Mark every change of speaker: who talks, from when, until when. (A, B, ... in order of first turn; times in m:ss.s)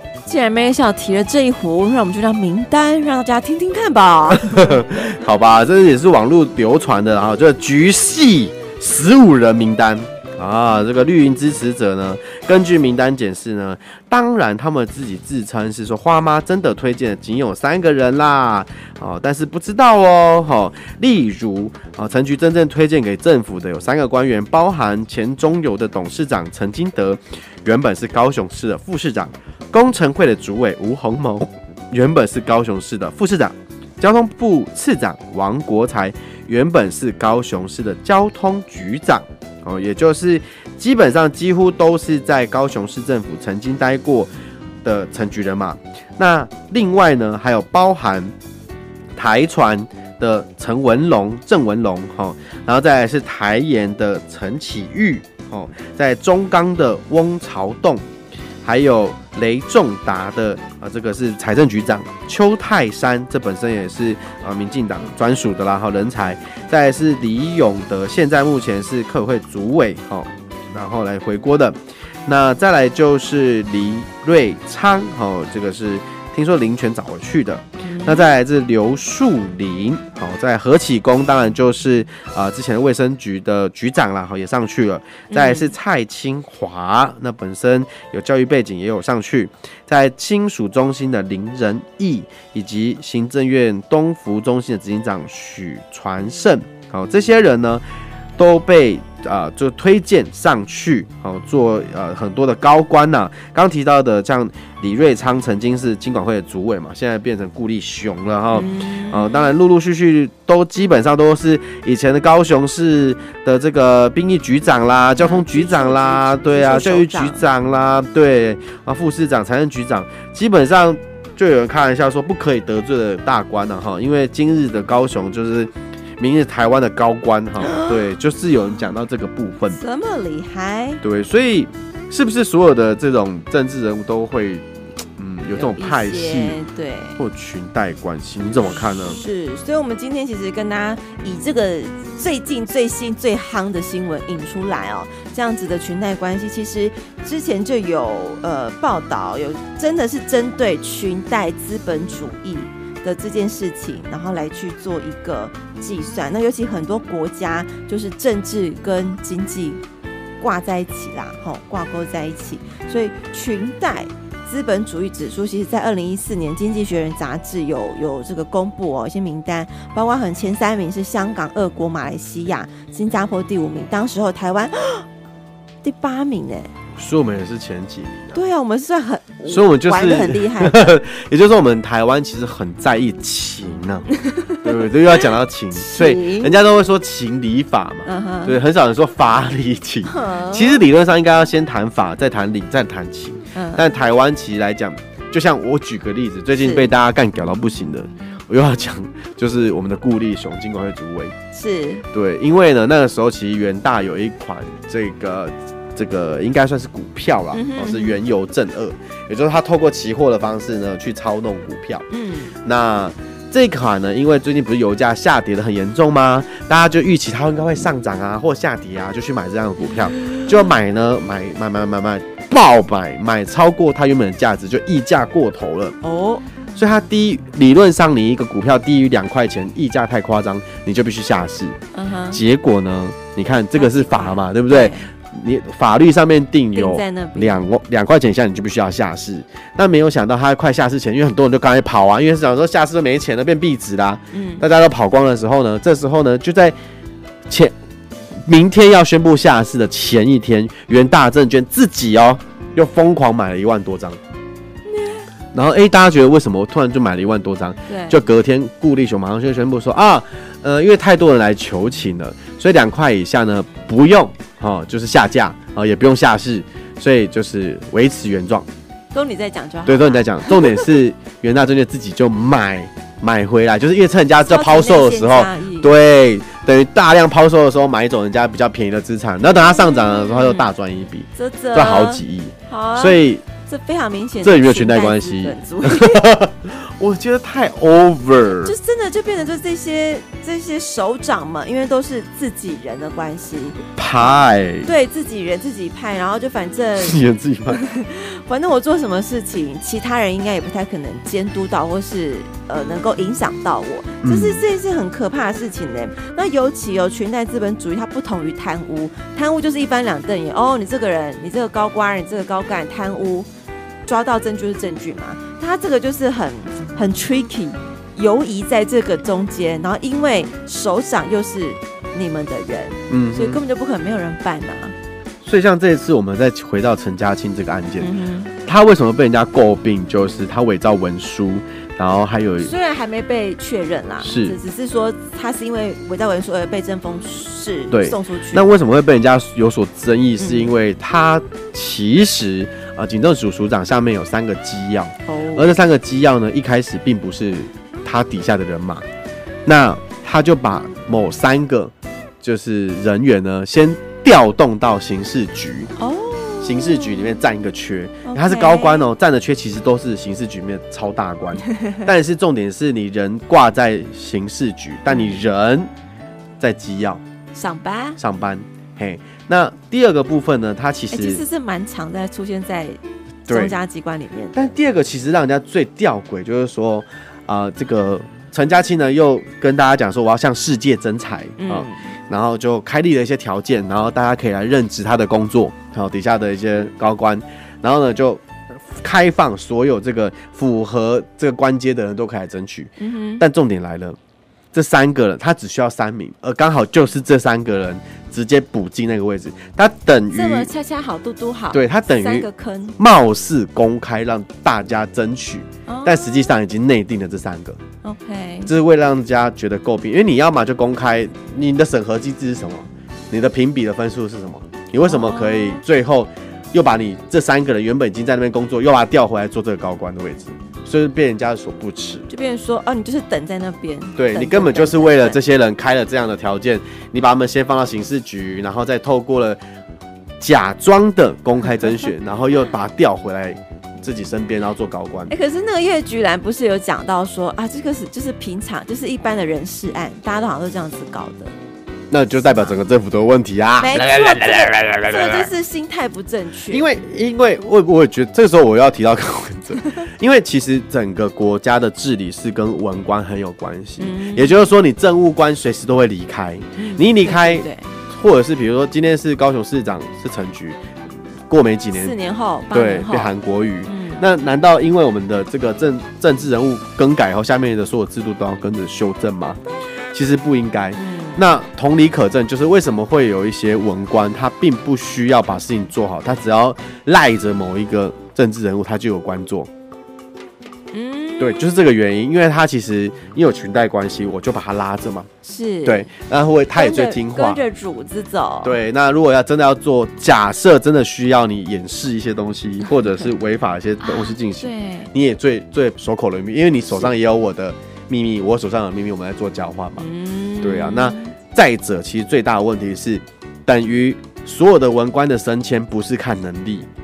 0:00.2-0:05.0 A
0:04.3-0:44.3 B
0:44.8-0:48.3 B
0:49.1-0:58.0 B
0:58.6-1:37.8 B
1:17.8-1:18.3 A
1:25.3-1:25.7 A
1:38.4-2:09.8 B
1:48.5-1:49.5 A
1:55.2-1:57.4 A
2:07.6-2:08.0 A
2:09.7-2:11.0 A
2:11.0-2:16.6 B
2:15.5-2:17.2 A
2:17.2-2:19.2 B
2:18.9-2:39.8 A
2:40.4-2:55.0 A
2:55.8-2:56.7 A
2:57.0-2:58.4 B
2:58.3-3:01.0 A
2:59.5-3:04.1 B
3:04.2-3:06.5 A
3:04.6-3:21.3 B
3:08.0-3:08.6 A
3:10.0-3:10.8 A
3:13.5-3:13.8 A
3:16.6-3:16.9 A
3:21.5-3:22.0 A
3:22.1-3:32.0 B
3:27.5-3:28.2 A
3:32.1-3:32.5 A
3:32.6-3:46.0 B
3:39.8-3:40.7 A
3:46.0-3:46.4 A
3:46.7-3:51.8 B
3:51.9-3:52.4 A
3:52.3-4:06.7 B
3:53.8-3:55.1 A
3:56.7-3:57.7 A
4:04.3-4:04.6 A
4:07.5-4:07.7 B
4:08.4-4:14.2 B
4:14.9-4:15.2 A
4:15.5-4:28.7 B
4:17.9-4:18.2 A
4:29.1-4:30.9 A
4:29.8-4:43.4 B
4:34.4-4:35.9 A
4:39.6-4:40.7 A
4:41.3-4:46.3 A
4:44.4-4:48.7 B
4:48.6-4:53.8 A
4:54.0-4:54.9 B
4:54.8-4:57.2 A
4:57.0-4:57.8 B
4:57.7-5:13.5 A
5:04.2-5:04.6 B
5:14.0-5:24.9 A
5:23.1-5:23.6 B
5:25.4-5:28.1 B
5:28.0-5:28.5 A
5:28.6-5:32.7 B
5:32.6-5:38.7 A
5:34.2-5:34.6 B
5:37.9-5:49.0 B
5:40.4-5:40.7 A
5:45.2-5:45.7 A
5:49.6-5:55.9 B
5:56.0-5:57.4 A
5:56.6-6:05.9 B
5:58.2-5:59.1 A
6:05.1-6:05.4 A
6:06.6-6:07.2 B
6:07.5-6:08.2 A
6:08.2-6:11.4 B
6:11.1-6:14.6 A
6:13.5-6:13.8 B
6:14.5-6:34.2 B
6:21.6-6:22.1 A
6:33.0-6:33.4 A
6:34.7-6:40.7 B
6:40.3-6:43.0 A
6:41.7-6:47.8 B
6:45.9-6:46.4 A
6:48.0-6:48.7 A
6:48.6-7:02.3 B
6:55.0-6:55.8 A
7:02.3-7:05.4 A
7:04.2-7:09.6 B
7:10.4-7:15.3 B
7:11.6-7:12.1 A
7:15.3-7:21.5 A
7:22.1-7:25.5 B
7:22.3-7:22.8 A
7:23.8-7:26.9 A
7:26.7-7:40.8 B
7:34.0-7:34.6 A
7:36.8-7:37.9 A
7:41.5-7:42.2 B
7:41.9-7:43.3 A
7:42.7-7:49.6 B
7:43.8-7:44.2 A
7:50.1-7:59.7 B
7:50.9-7:51.4 A
8:00.9-8:01.7 A
8:01.4-8:05.3 B
8:05.4-8:06.1 A
8:05.8-8:07.6 B
8:06.7-8:08.8 A
8:08.6-8:20.0 B
8:14.0-8:15.1 A
8:20.0-8:21.3 A
8:20.6-8:26.9 B